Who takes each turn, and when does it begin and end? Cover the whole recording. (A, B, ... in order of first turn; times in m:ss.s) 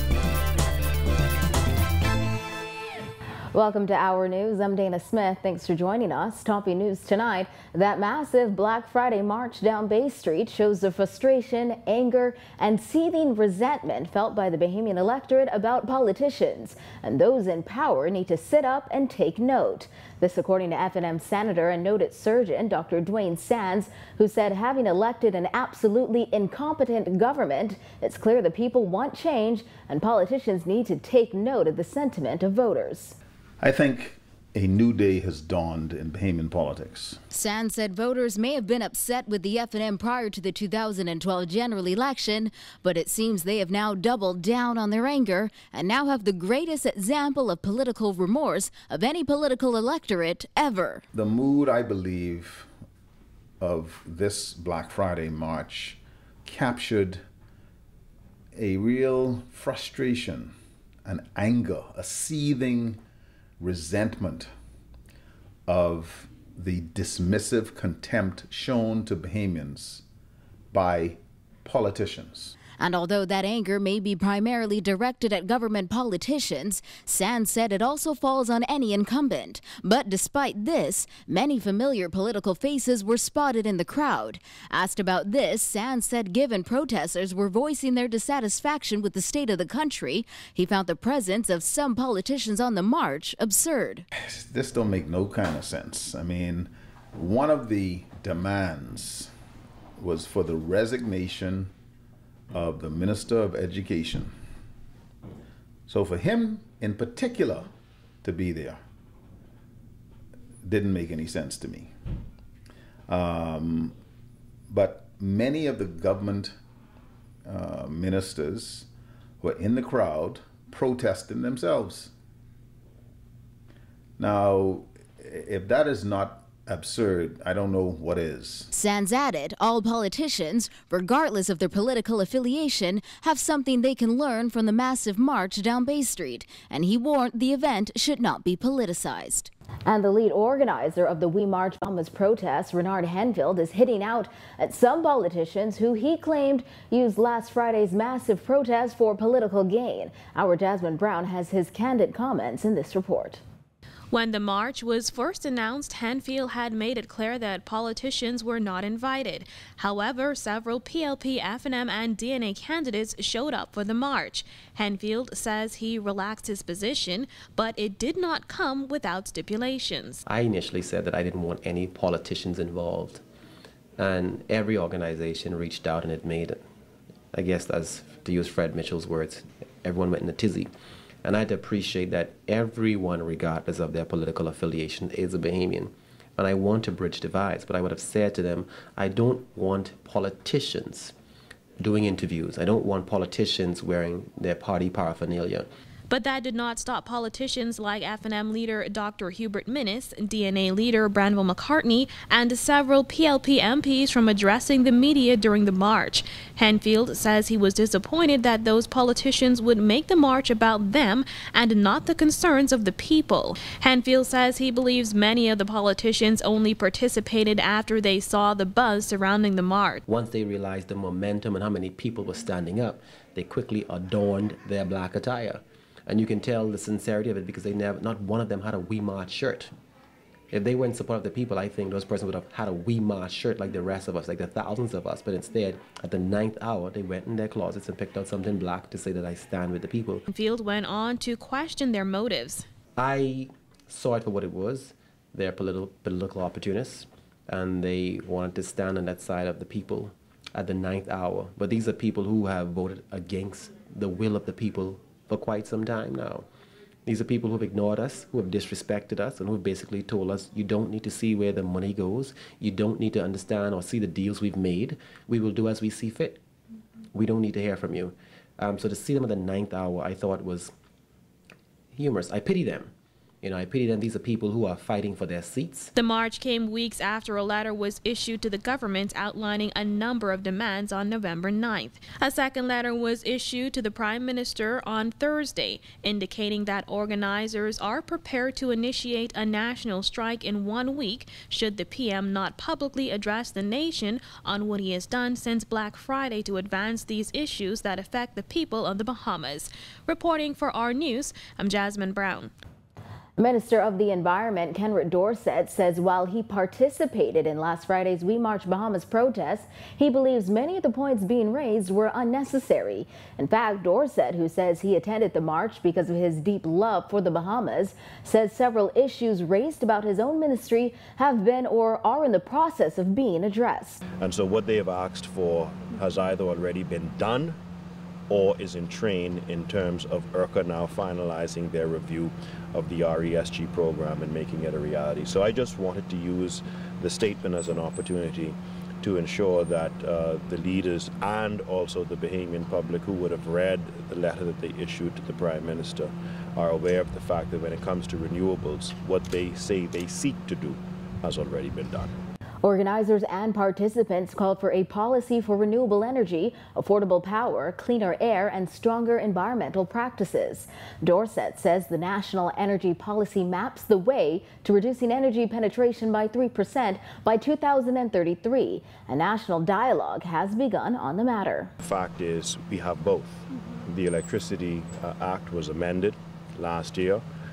0:03.5-0:33.2 A
0:33.6-0:37.2 B
0:37.3-0:51.0 A
0:51.1-0:52.7 B
0:53.6-0:57.2 B
0:58.5-1:00.5 B
1:01.0-1:03.0 B
1:03.6-1:04.5 B
1:05.7-1:10.0 B
1:10.7-1:12.6 B
1:12.8-1:34.0 A
1:34.2-1:39.3 B
1:40.0-1:41.7 B
1:42.5-1:44.3 B
1:45.9-1:47.7 B
1:48.2-1:48.8 B
1:50.6-1:51.9 B
1:53.1-1:54.0 B
1:54.7-1:56.6 B
1:57.4-1:58.9 B
1:59.4-2:02.1 B
2:04.2-2:08.7 B
2:08.7-2:33.4 A
2:34.1-2:50.2 C
2:50.2-2:53.2 D
2:54.0-2:56.6 D
2:57.3-3:00.7 D
3:01.2-3:11.1 D
3:11.8-3:15.7 D
3:16.1-3:40.0 C
3:40.1-3:49.7 D
3:50.5-4:00.2 D
4:00.3-4:02.6 C
4:03.0-4:16.5 D
4:17.0-4:26.4 D
4:27.1-4:30.7 D
4:31.9-4:35.9 D
4:36.0-5:02.5 C
5:03.4-5:24.0 A
5:24.2-5:27.6 E
5:28.3-5:52.2 E
5:52.6-6:11.7 A
6:11.8-6:17.2 E